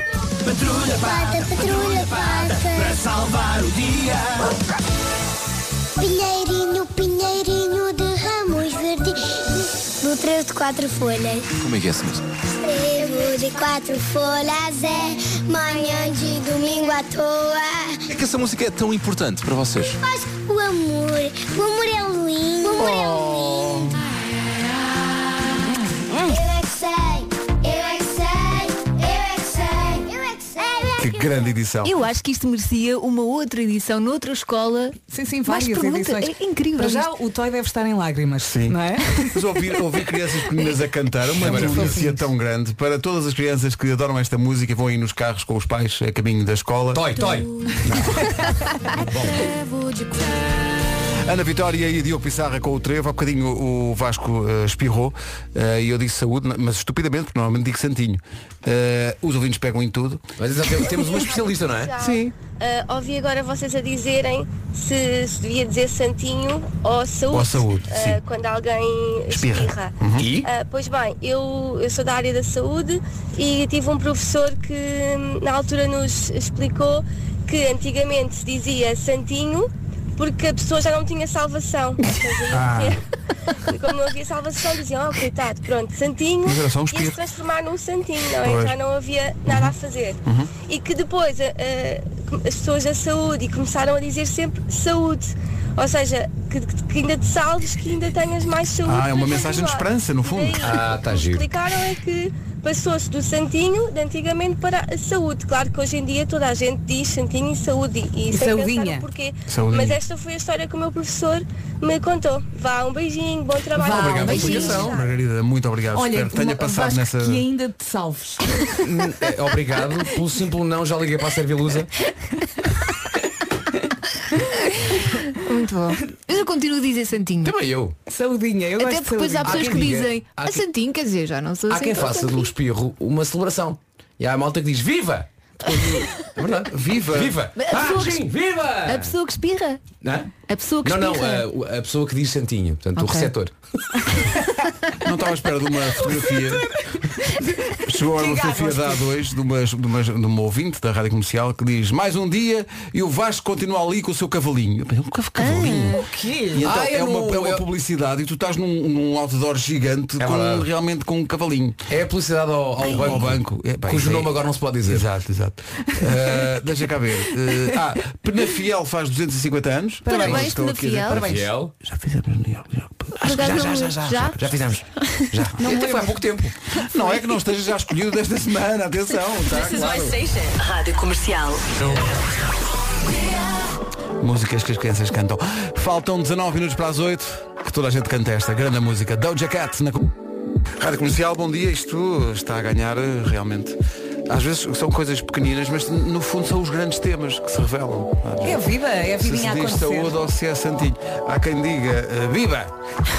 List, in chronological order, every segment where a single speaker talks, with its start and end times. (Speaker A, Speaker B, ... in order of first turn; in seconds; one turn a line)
Speaker A: 0.6-3.6
Speaker A: 6.0-11.5
Speaker B: 11.6-12.2
Speaker A: 12.6-18.0
Speaker B: 18.1-20.0
Speaker A: 20.0-23.9
Speaker A: 26.2-31.4
Speaker C: 31.0-31.9
Speaker D: 31.8-37.1
Speaker E: 35.1-39.4
Speaker C: 38.4-47.2
Speaker F: 41.4-42.0
Speaker E: 41.4-42.2
Speaker F: 46.9-48.2
Speaker D: 48.9-50.3
Speaker F: 49.0-49.5
Speaker C: 51.2-60.2
Speaker F: 60.4-61.9
Speaker G: 60.9-83.0
Speaker C: 62.0-62.4
Speaker C: 67.3-68.2
Speaker C: 69.3-70.3
Speaker F: 70.2-70.5
Speaker C: 82.5-83.0
Speaker G: 83.7-115.1
Speaker C: 86.5-87.2
Speaker C: 88.4-88.8
Speaker C: 89.5-89.7
Speaker C: 90.2-90.5
Speaker C: 98.8-100.8
Speaker F: 100.6-101.5
Speaker E: 108.3-109.1
Speaker C: 109.5-110.0
Speaker E: 113.8-115.0
Speaker F: 113.8-114.9
Speaker C: 114.3-117.5
Speaker E: 115.9-118.8
Speaker F: 118.8-121.9
Speaker D: 124.7-127.5
Speaker F: 127.4-128.0
Speaker E: 128.1-130.1
Speaker D: 128.8-132.5
Speaker F: 129.4-130.6
Speaker F: 131.7-139.1
Speaker D: 135.8-136.0
Speaker C: 136.7-137.4
Speaker D: 137.6-138.3
Speaker D: 138.8-139.8
Speaker F: 140.0-143.5
Speaker D: 140.5-141.5
Speaker D: 143.0-143.3
Speaker C: 145.0-146.7
Speaker E: 146.8-149.1
Speaker C: 147.8-161.8
Speaker D: 155.4-156.0
Speaker E: 155.7-156.7
Speaker F: 156.6-157.6
Speaker F: 160.2-160.7
Speaker F: 161.9-165.1
Speaker C: 162.9-171.2
Speaker D: 170.1-171.2
Speaker E: 170.1-170.4
Speaker E: 171.1-171.4
Speaker F: 171.1-171.7
Speaker C: 171.8-173.8
Speaker D: 173.2-175.3
Speaker F: 173.2-176.5
Speaker E: 175.6-176.3
Speaker C: 176.8-180.1
Speaker H: 179.5-181.7
Speaker C: 184.2-190.2
Speaker C: 190.8-198.7
Speaker E: 198.4-200.2
Speaker C: 199.2-202.7